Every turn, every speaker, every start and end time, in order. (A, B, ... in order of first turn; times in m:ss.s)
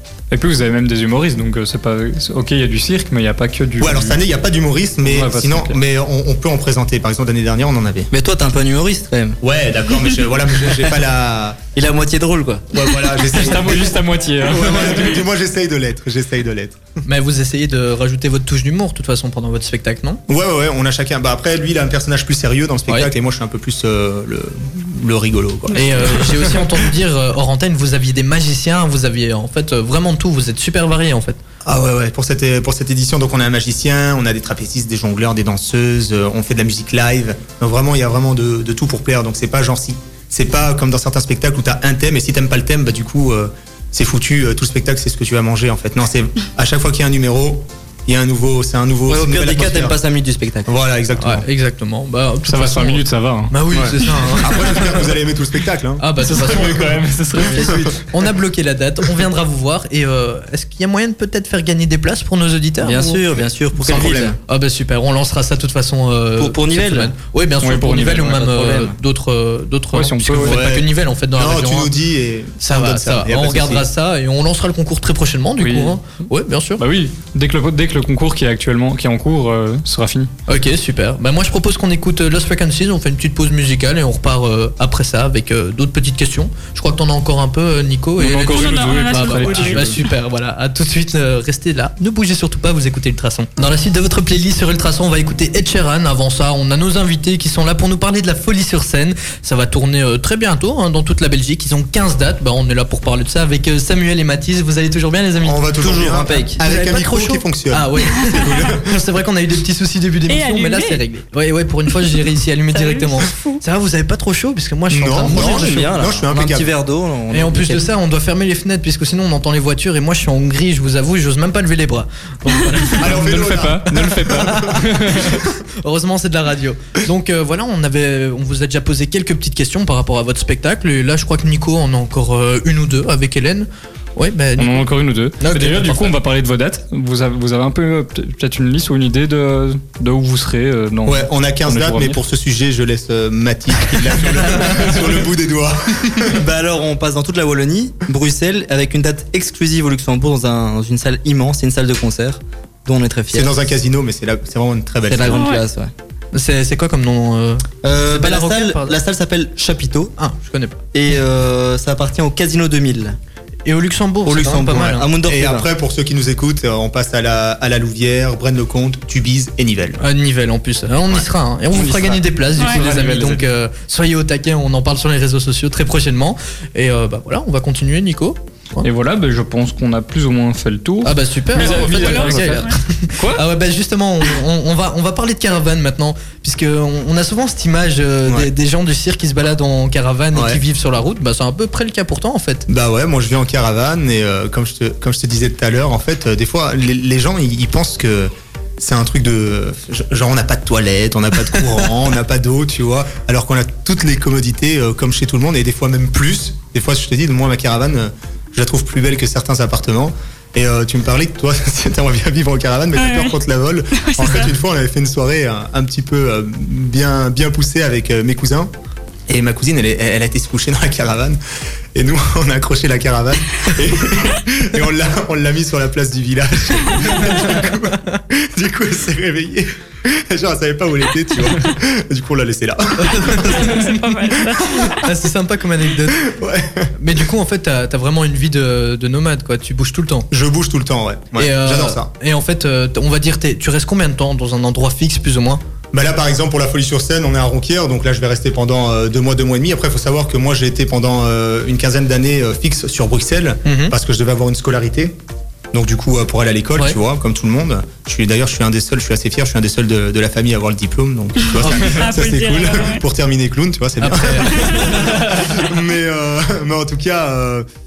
0:00.3-0:04.2 A
0:03.8-0:08.1 B
0:05.0-0:05.8 A
0:08.1-0:09.4 C
0:09.4-0:11.6 B
0:11.8-0:12.7 C
0:12.7-0:16.8 B
0:13.2-0:15.2 A
0:17.0-0:20.2 D
0:20.3-0:26.8 B
0:25.7-0:26.0 E
0:25.7-0:31.4 D
0:31.6-0:50.0 B
0:49.1-0:50.7 C
0:50.6-0:51.4 B
0:51.2-0:55.1 D
0:52.4-0:53.5 A
0:53.7-0:56.9 B
0:56.0-1:03.2 D
0:56.2-0:57.9 A
1:02.8-1:04.4 C
1:03.8-1:04.4 B
1:04.4-1:11.9 D
1:06.4-1:07.1 C
1:07.6-1:08.4 A
1:08.3-1:08.9 C
1:09.9-1:10.6 A
1:10.4-1:13.9 B
1:12.6-1:16.8 D
1:15.6-1:16.0 A
1:16.8-1:20.3 A
1:20.5-1:45.7 D
1:28.2-1:30.0 A
1:28.4-1:30.0 E
1:45.4-1:48.9 B
1:45.8-1:46.6 C
1:46.4-1:55.8 D
1:50.3-1:51.0 E
1:52.7-1:53.6 E
1:54.9-1:56.7 B
1:55.3-1:57.9 C
1:57.3-2:03.2 D
2:03.0-2:05.4 B
2:03.0-2:05.4 A
2:05.4-2:16.2 D
2:14.6-2:22.2 A
2:21.0-2:26.4 B
2:26.3-2:33.5 C
2:33.3-2:35.4 B
2:35.1-2:35.9 C
2:35.3-2:35.6 E
2:36.3-2:39.0 D
2:37.8-2:40.1 C
2:40.2-2:40.8 D
2:40.9-2:43.2 C
2:43.6-2:45.1 D
2:44.2-2:45.7 C
2:45.2-2:50.0 B
2:50.0-2:58.9 D
2:51.7-2:53.4 A
2:58.8-3:03.4 A
3:01.0-3:12.6 D
3:01.6-3:02.8 E
3:08.2-3:08.5 B
3:10.3-3:10.6 B
3:12.7-3:38.7 B
3:33.0-3:33.3 E
3:34.0-3:34.5 E
3:39.3-3:41.4 B
3:41.9-3:53.8 B
3:47.2-3:47.5 D
3:53.0-3:54.0 D
3:53.3-3:55.0 E
3:54.6-3:56.2 D
3:56.1-3:56.9 B
3:57.0-4:00.3 D
4:00.3-4:02.1 B
4:01.4-4:05.6 D
4:05.9-4:15.2 B
4:13.6-4:13.9 D
4:15.7-4:27.7 B
4:21.4-4:23.0 E
4:24.0-4:25.3 D
4:24.6-4:24.9 E